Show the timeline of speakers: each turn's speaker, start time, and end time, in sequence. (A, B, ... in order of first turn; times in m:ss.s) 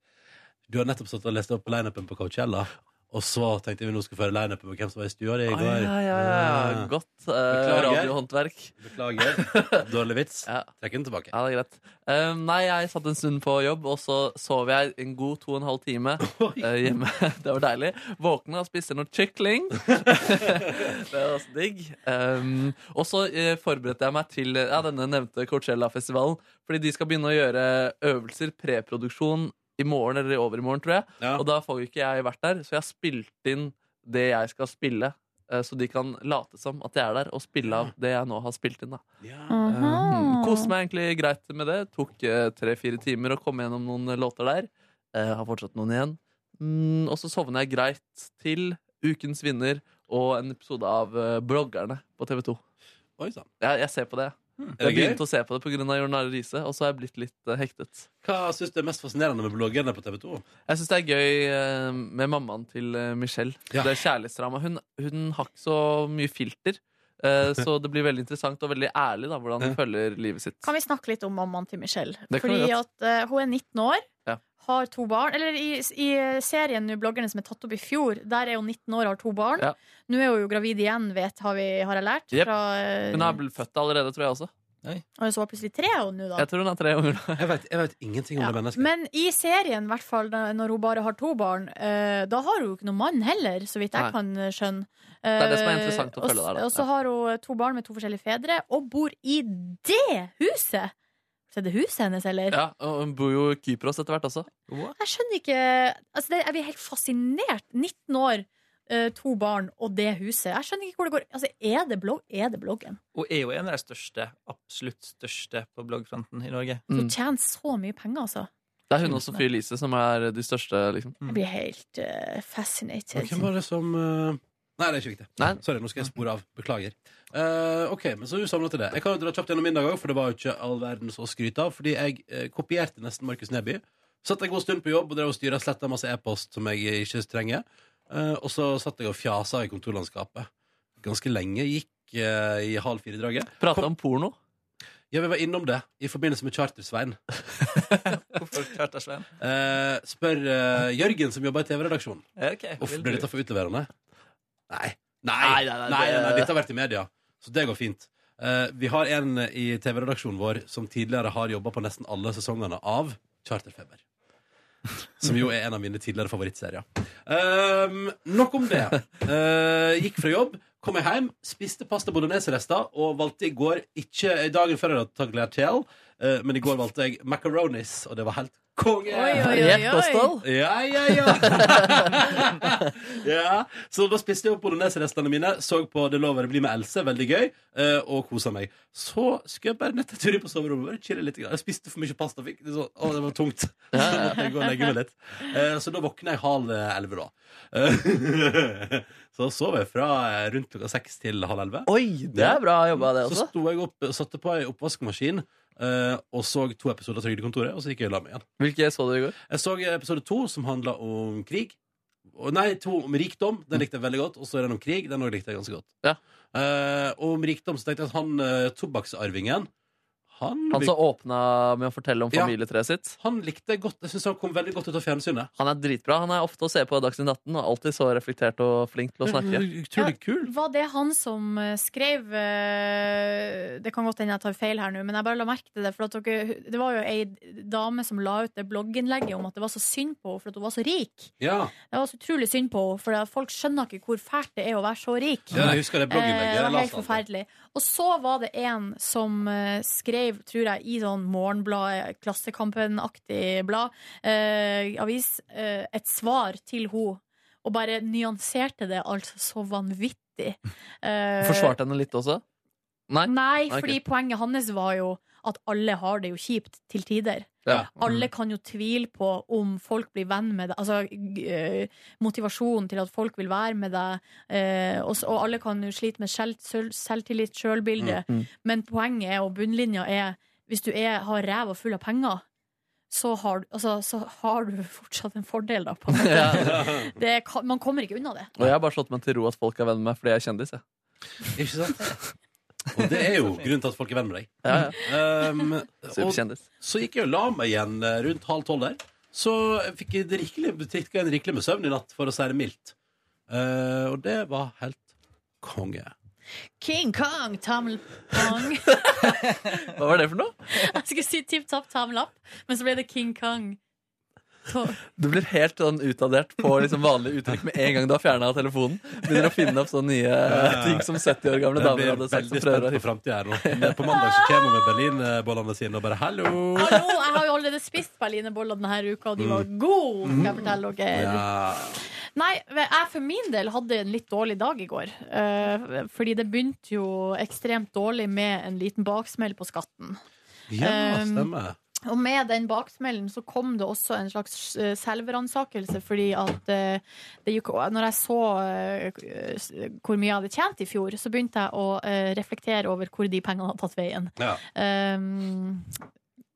0:00.7-0:06.9 A
0:05.5-0:09.9 B
0:07.5-0:08.2 A
0:08.8-0:11.3 A
0:11.3-0:39.0 B
0:16.3-0:16.7 A
0:37.7-0:37.9 A
0:39.2-0:39.6 A
0:39.5-0:40.7 C
0:39.7-0:52.6 B
0:53.2-0:53.5 A
0:53.6-0:58.1 B
0:54.8-0:55.2 A
0:58.2-1:00.4 A
1:00.7-1:10.7 B
1:10.6-1:14.1 C
1:12.3-1:12.7 B
1:14.6-1:23.4 C
1:23.1-1:24.5 B
1:25.2-1:26.5 C
1:26.4-1:27.5 B
1:27.4-1:28.9 A
1:28.4-1:40.9 C
1:35.4-1:36.8 B
1:41.5-1:42.6 C
1:42.5-1:44.5 B
1:44.7-1:45.0 D
1:45.0-1:53.0 C
1:53.2-1:56.8 D
1:56.9-1:58.5 C
1:58.9-2:01.2 B
2:01.3-2:03.4 C
2:03.2-2:20.5 A
2:21.0-2:23.9 A
2:23.6-2:24.4 B
2:25.1-2:27.2 A
2:28.2-2:29.3 D
2:29.4-2:32.2 A
2:32.4-2:33.2 D
2:32.8-2:33.9 A
2:34.7-2:44.0 A
2:35.4-2:36.5 B
2:45.2-2:59.8 A
2:59.1-3:00.3 C
2:59.4-3:00.5 B
3:00.4-3:28.5 A
3:01.2-3:02.6 B
3:13.9-3:14.5 B
3:21.9-3:23.5 B
3:28.6-3:29.4 B
3:29.5-3:31.8 A
3:32.3-3:35.9 A
3:36.5-3:39.7 A
3:40.3-3:40.9 A
3:40.7-3:43.2 B
3:43.2-3:45.5 A
3:45.6-3:49.7 B
3:49.2-3:50.5 A
3:50.0-4:01.3 C
4:01.4-4:01.7 A
4:01.9-4:21.7 C
4:05.5-4:07.2 A
4:21.4-4:22.4 B
4:23.1-4:24.0 B
4:23.2-4:42.4 C
4:27.7-4:28.3 B
4:43.1-4:48.5 C
4:46.2-4:46.8 B
4:46.5-4:47.1 A
4:48.6-4:50.8 B
4:51.6-4:52.2 A
4:52.9-5:03.0 A
4:54.6-4:55.0 B
4:56.1-4:56.6 B
5:03.5-5:05.1 A
5:05.6-5:06.1 A
5:06.8-5:09.1 C
5:09.9-5:10.6 B
5:10.7-5:13.8 C
5:14.7-5:15.0 C
5:15.2-5:23.1 B
5:20.5-5:21.1 A
5:21.8-5:27.2 A
5:23.6-5:24.0 B
5:26.8-5:31.5 C
5:29.4-5:29.7 A
5:30.3-5:32.0 A
5:32.4-5:40.2 C
5:40.7-5:41.8 A
5:40.8-5:41.5 C
5:42.1-5:55.9 C